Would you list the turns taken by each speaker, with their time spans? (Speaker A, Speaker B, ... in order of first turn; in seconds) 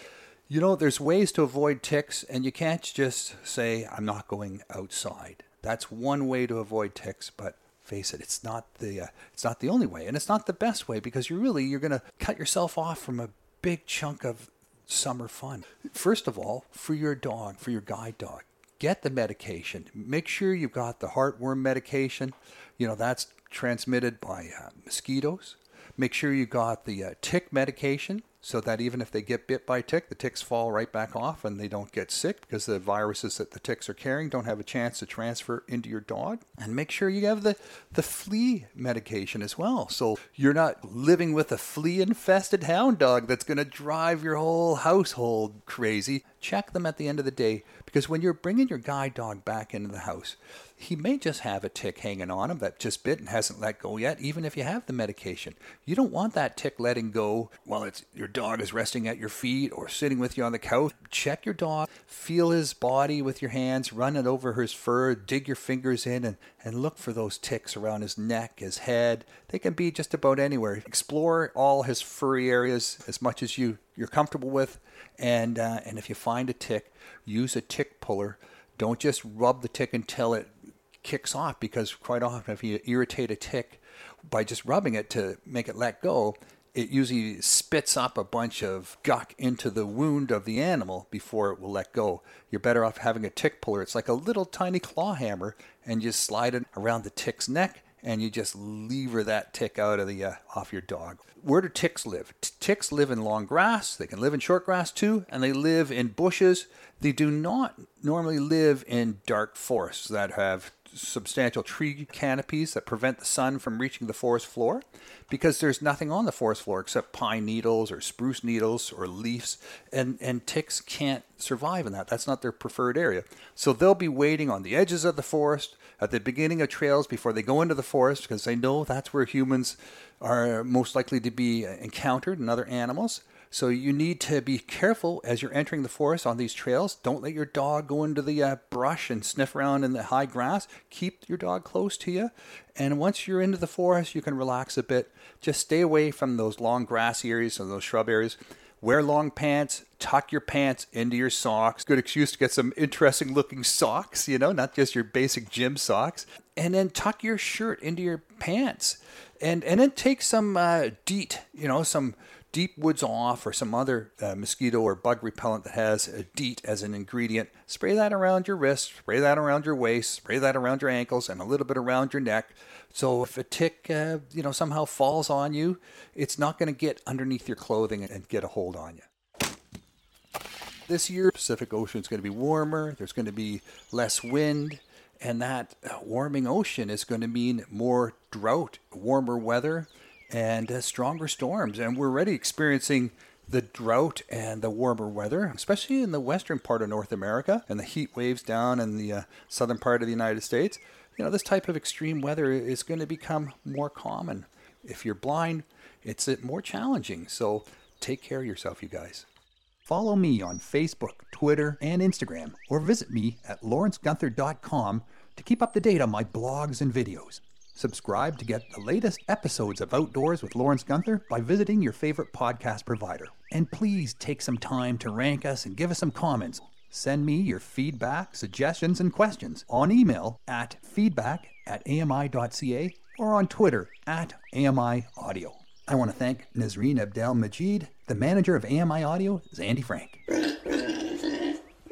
Speaker A: 0.5-179.1, 180.9-209.3, 209.9-240.2